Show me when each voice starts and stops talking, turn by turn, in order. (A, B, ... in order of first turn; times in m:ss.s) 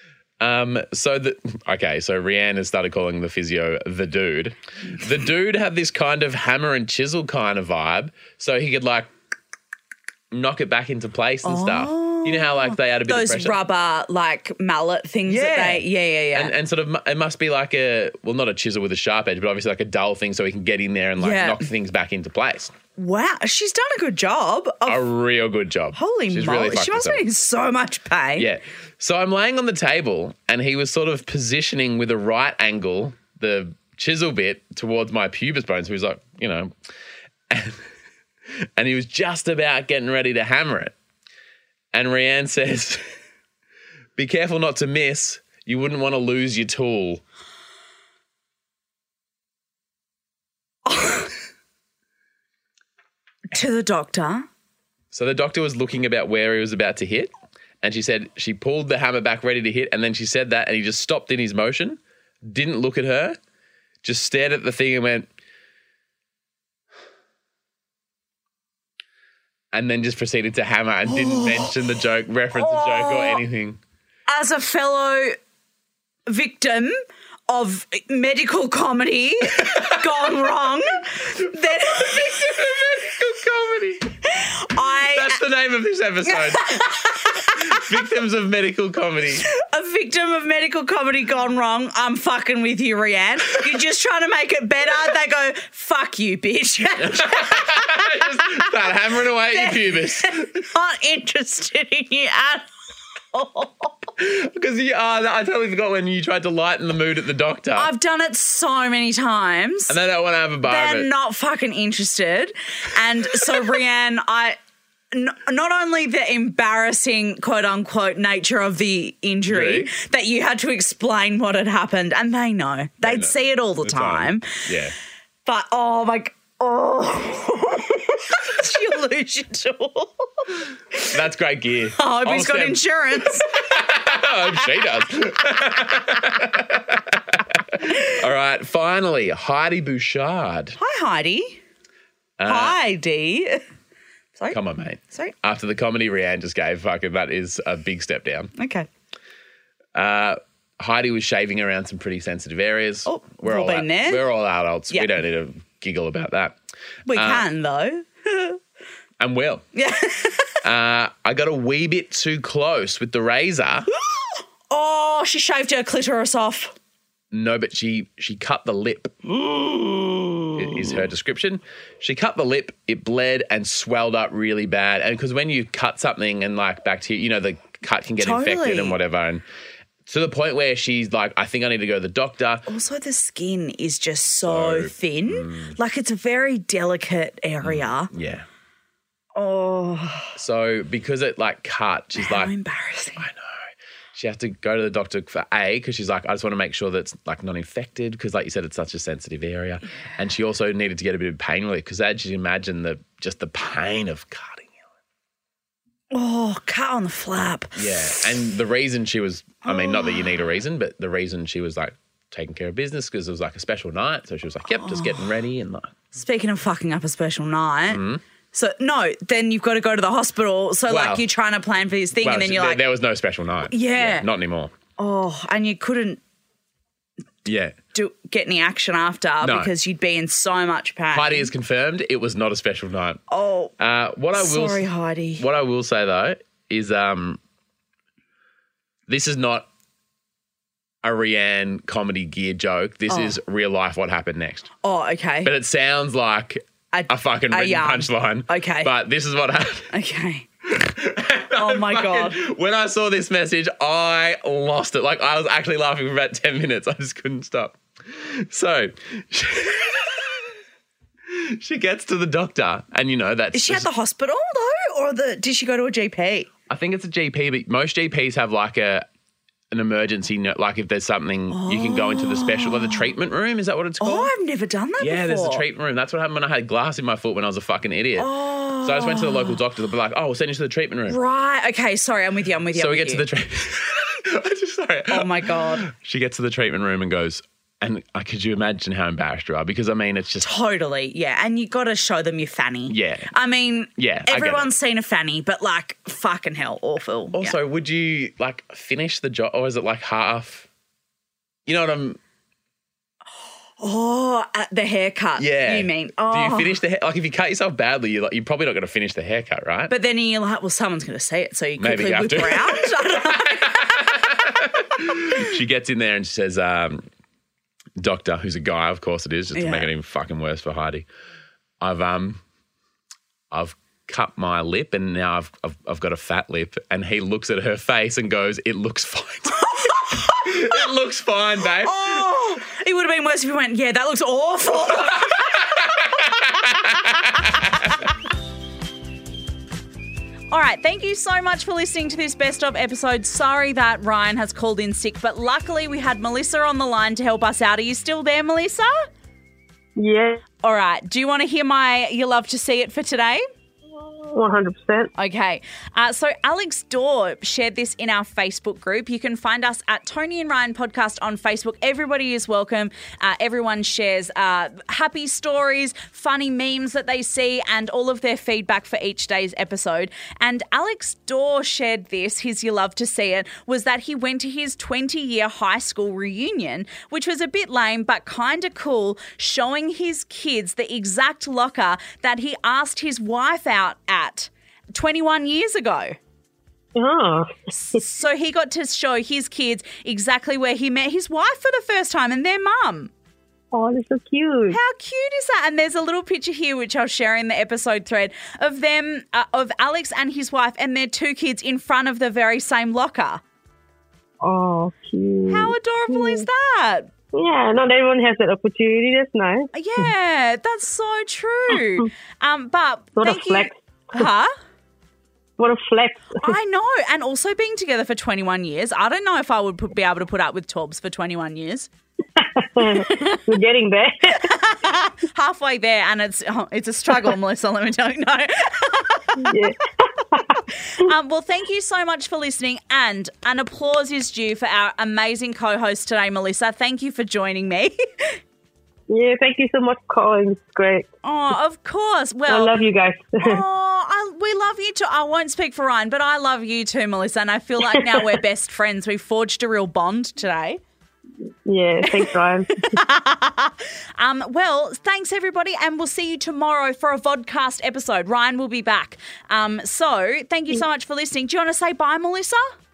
0:00.4-0:09.1 A
0:10.3-0:13.6 A
0:11.4-0:16.5 B
0:15.3-0:22.7 A
0:21.2-0:21.6 B
0:23.0-0:25.0 B
0:24.8-0:27.2 A
0:25.9-0:28.5 B
0:28.4-0:36.7 A
0:37.5-0:37.8 A
0:38.8-0:40.9 A
0:41.9-0:43.0 A
0:44.2-0:47.2 A
0:50.8-0:51.3 B
0:53.5-0:54.4 B
0:55.1-0:57.3 A
0:57.8-1:03.4 A
1:04.0-1:05.3 A
1:09.7-1:13.8 A
1:11.1-1:11.8 B
1:12.5-1:13.4 B
1:14.3-1:15.4 B
1:16.3-1:17.0 B
1:17.5-1:22.8 B
1:19.6-1:20.3 A
1:21.8-1:24.1 A
1:24.2-1:25.4 B
1:25.1-1:29.4 A
1:26.2-1:27.8 B
1:29.4-1:38.7 B
1:37.0-1:40.6 A
1:39.5-1:42.7 B
1:43.3-1:44.0 B
1:44.2-1:47.9 A
1:47.7-1:49.9 B
1:49.9-1:51.1 A
1:50.6-1:54.6 B
1:55.1-2:04.6 B
1:59.5-1:59.9 A
2:03.0-2:04.9 A
2:05.4-2:11.1 B
2:11.1-2:20.8 A
2:12.0-2:13.7 B
2:20.8-2:21.6 B
2:22.4-2:22.8 A
2:22.4-2:23.6 B
2:24.5-2:28.5 A
2:28.6-2:28.9 B
2:29.9-2:36.6 A
2:33.0-2:34.2 B
2:37.1-2:38.6 B
2:37.1-2:37.4 A
2:39.2-2:39.6 A
2:39.7-2:40.6 B
2:40.6-2:43.9 A
2:44.0-2:46.7 B
2:47.3-2:49.6 A
2:50.5-2:59.4 A
2:58.2-2:59.0 B
3:00.0-3:02.7 A
3:02.7-3:08.1 B
3:04.4-3:05.8 A
3:07.6-3:08.4 A
3:09.3-3:10.3 B
3:10.4-3:12.5 A
3:12.2-3:13.2 B
3:13.2-3:13.6 A
3:14.1-3:24.8 A
3:26.1-3:28.2 B
3:27.8-3:36.0 A
3:29.6-3:30.3 B
3:34.8-3:35.3 B
3:36.1-3:38.0 B
3:37.9-3:38.2 A
3:38.5-3:42.8 B
3:40.9-3:41.2 A
3:42.2-3:44.7 A
3:43.7-3:44.2 B
3:45.0-3:46.2 B
3:47.4-3:47.7 A
3:47.9-3:51.5 B
3:49.4-3:49.7 A
3:51.1-3:53.2 A
3:53.3-3:53.7 B
3:53.8-3:57.4 A
3:54.3-3:55.4 B
3:59.1-3:59.7 A
4:01.0-4:04.7 A
4:03.1-4:03.4 B
4:04.8-4:05.5 B
4:05.4-4:09.9 A
4:06.9-4:08.9 B
4:09.9-4:10.5 B
4:10.7-4:20.5 A
4:11.5-4:12.4 B
4:21.3-4:23.9 A
4:23.5-4:26.5 B
4:26.7-4:29.0 A
4:29.7-4:34.3 A
4:31.5-4:33.0 B
4:34.0-4:35.6 B
4:35.0-4:38.3 A
4:38.2-4:39.6 B
4:38.8-4:41.2 A
4:41.1-4:43.2 B
4:42.7-4:50.5 A
4:45.1-4:45.8 B
4:50.4-4:57.6 B
4:52.9-4:53.3 A
4:54.0-4:54.7 A
4:57.4-5:00.7 A
5:01.6-5:02.2 A
5:03.8-5:06.7 B
5:05.4-5:09.9 A
5:09.9-5:14.0 B
5:11.8-5:17.0 A
5:18.0-5:21.0 A
5:19.5-5:19.9 B
5:21.8-5:22.4 A
5:23.5-5:32.2 A
5:29.6-5:30.8 B
5:31.8-5:36.1 B
5:35.1-5:37.7 A
5:40.5-5:49.0 B
5:50.0-5:50.4 C
5:50.6-5:53.4 B
5:54.1-5:55.1 C
5:55.2-6:26.2 B
6:26.9-6:28.0 C
6:27.7-6:33.1 B
6:33.7-6:34.8 C
6:34.7-6:43.4 B
6:44.4-6:46.4 C
6:45.5-6:47.1 B
6:47.3-6:49.7 C
6:49.7-6:54.5 B
6:53.2-6:54.2 C
6:55.6-6:56.5 C
6:56.4-7:01.9 B
7:02.4-7:04.4 C
7:02.9-7:03.4 B
7:04.3-7:09.7 B
7:09.4-7:09.8 C
7:10.3-7:10.6 C
7:10.7-7:18.4 B
7:19.1-7:21.1 C
7:21.2-7:22.8 B
7:22.5-7:23.6 C
7:23.4-7:30.8 B
7:31.6-7:33.0 C
7:32.0-7:42.7 B